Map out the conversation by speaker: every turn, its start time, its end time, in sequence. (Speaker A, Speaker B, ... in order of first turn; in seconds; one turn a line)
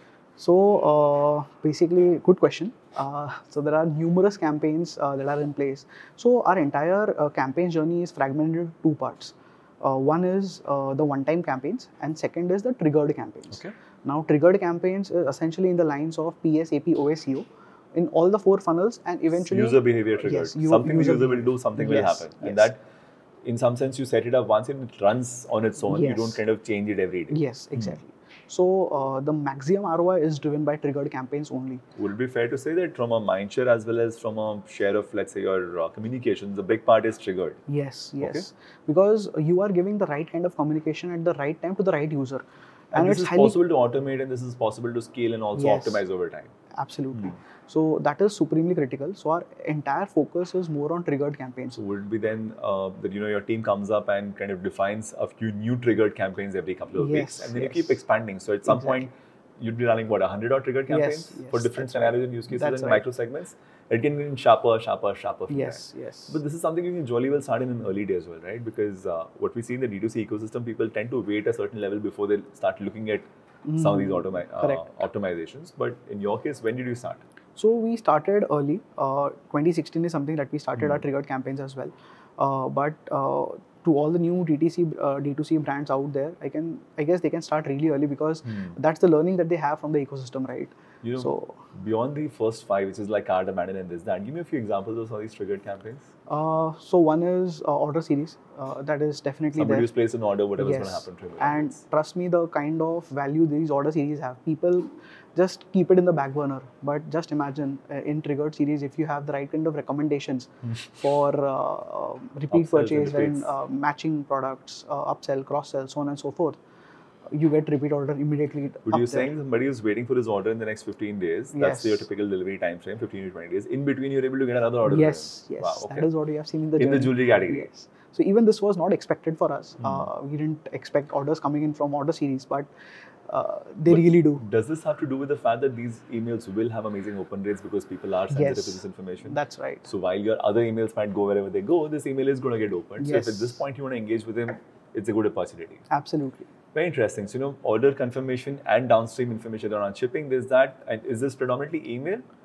Speaker A: 0.4-22.7
Speaker B: 19.4-22.8
Speaker B: 23.4-28.0
Speaker A: 25.9-26.4
Speaker A: 27.3-31.8
Speaker B: 31.9-37.6
Speaker A: 37.7-43.6
Speaker B: 42.9-46.5
Speaker A: 45.5-46.0
Speaker A: 46.7-51.8
Speaker B: 51.7-77.2
Speaker A: 57.0-58.0
Speaker A: 58.6-59.1
Speaker A: 60.9-63.0
Speaker A: 65.5-66.4
Speaker A: 73.6-74.9
Speaker A: 77.5-91.6
Speaker B: 88.5-88.8
Speaker B: 91.0-96.1
Speaker A: 96.3-99.9
Speaker B: 99.5-101.8
Speaker A: 100.6-116.6
Speaker B: 112.5-113.5
Speaker A: 117.3-119.3
Speaker B: 118.8-126.1
Speaker A: 121.5-122.1
Speaker A: 124.8-132.7
Speaker B: 126.8-127.7
Speaker B: 129.8-130.1
Speaker A: 133.3-134.4
Speaker B: 133.9-145.8
Speaker A: 138.3-139.9
Speaker A: 143.0-143.6
Speaker A: 145.9-146.5
Speaker B: 146.7-152.2